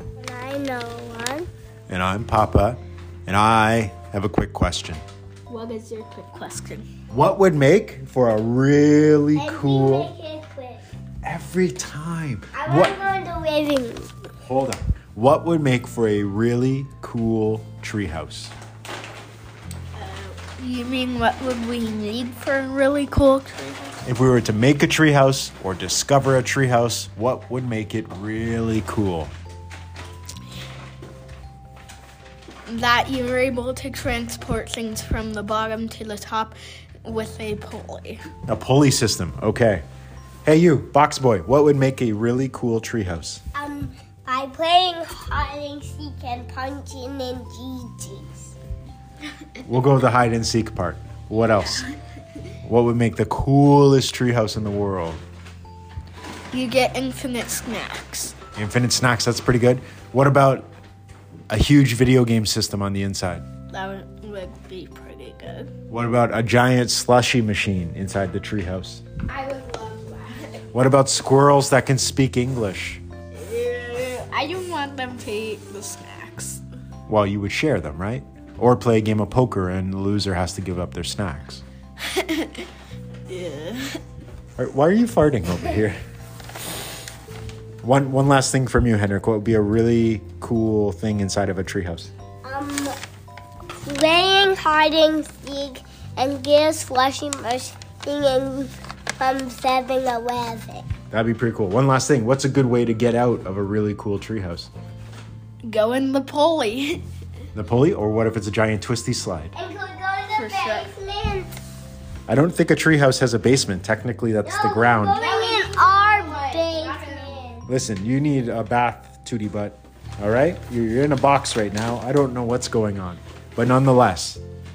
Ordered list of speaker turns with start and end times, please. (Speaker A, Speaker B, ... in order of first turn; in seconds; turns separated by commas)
Speaker A: 0.2-1.5, Speaker B: 1.9-5.0, Speaker C: 5.5-6.9, Speaker B: 7.1-10.1, Speaker A: 9.4-10.8, Speaker B: 11.2-13.0, Speaker A: 12.5-14.1, Speaker B: 14.4-18.5, Speaker C: 19.9-24.0, Speaker B: 24.0-29.3, Speaker C: 32.7-38.3, Speaker B: 38.5-39.8, Speaker B: 40.4-43.4, Speaker A: 43.5-48.5, Speaker B: 49.6-51.9, Speaker B: 52.6-55.2, Speaker C: 56.5-58.4, Speaker B: 58.5-60.7, Speaker B: 61.5-63.5, Speaker C: 63.7-65.7, Speaker B: 65.9-69.0, Speaker C: 69.3-70.6, Speaker B: 70.7-73.0, Speaker C: 73.3-76.6, Speaker B: 77.1-81.6, Speaker C: 82.0-82.7, Speaker C: 83.3-84.0, Speaker B: 84.6-86.0, Speaker B: 87.8-92.1, Speaker A: 92.4-93.0, Speaker A: 93.8-100.9, Speaker B: 101.1-104.7, Speaker C: 105.6-107.0, Speaker B: 107.5-109.5, Speaker A: 109.5-111.6, Speaker C: 110.3-110.9, Speaker B: 112.3-115.3, Speaker A: 114.4-117.7, Speaker C: 115.2-117.4, Speaker B: 117.7-124.4